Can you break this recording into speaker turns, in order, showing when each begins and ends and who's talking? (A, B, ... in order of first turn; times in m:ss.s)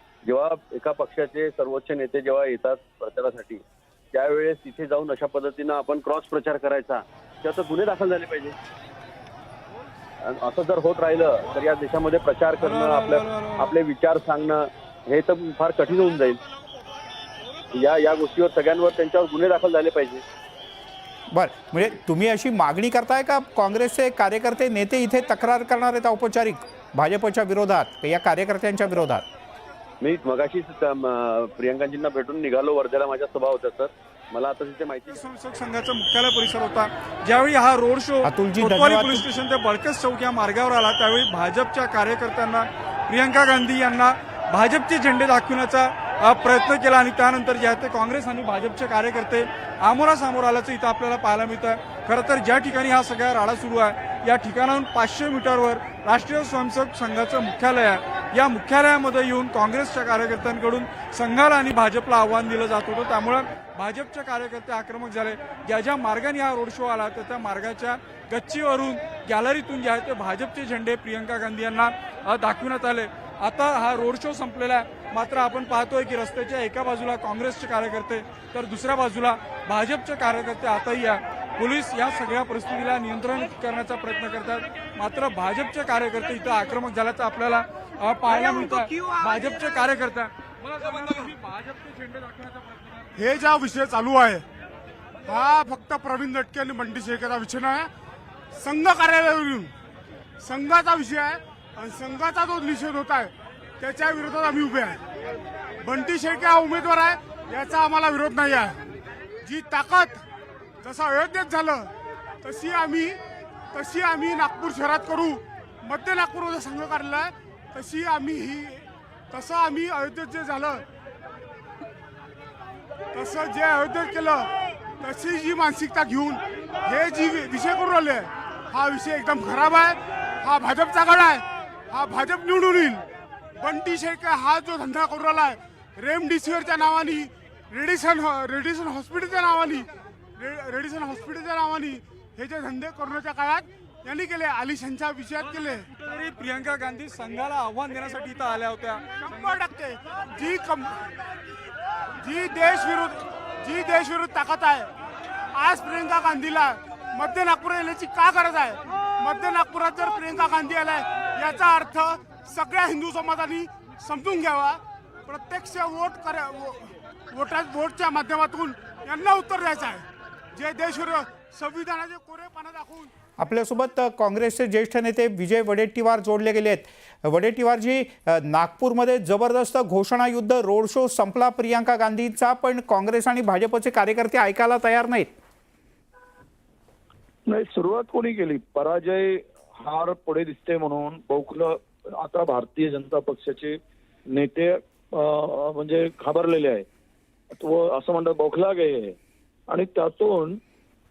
0:00.2-0:08.6 A
0:10.2-0:16.4 A
0:12.6-0:13.7 B
0:17.7-0:20.2 A
0:21.3-0:29.2 C
0:30.0-0:35.2 A
0:35.1-1:33.1 B
0:38.2-0:39.2 C
1:33.1-1:34.4 D
1:35.2-1:37.9 D
1:38.5-1:39.7 D
1:40.4-1:45.0 D
1:45.8-1:48.8 D
1:49.4-1:50.2 D
1:50.8-1:51.9 D
1:52.4-1:53.2 D
1:53.7-2:00.8 D
2:03.1-2:04.5 D
2:05.0-2:13.0 D
2:13.6-2:25.9 D
2:25.9-2:29.2 B
2:29.2-2:31.0 D
2:32.2-2:34.9 D
2:35.5-2:53.1 D
2:53.4-3:05.3 C
3:07.5-3:13.8 E
3:14.3-3:16.8 E
3:17.5-3:19.2 E
3:19.7-3:20.6 E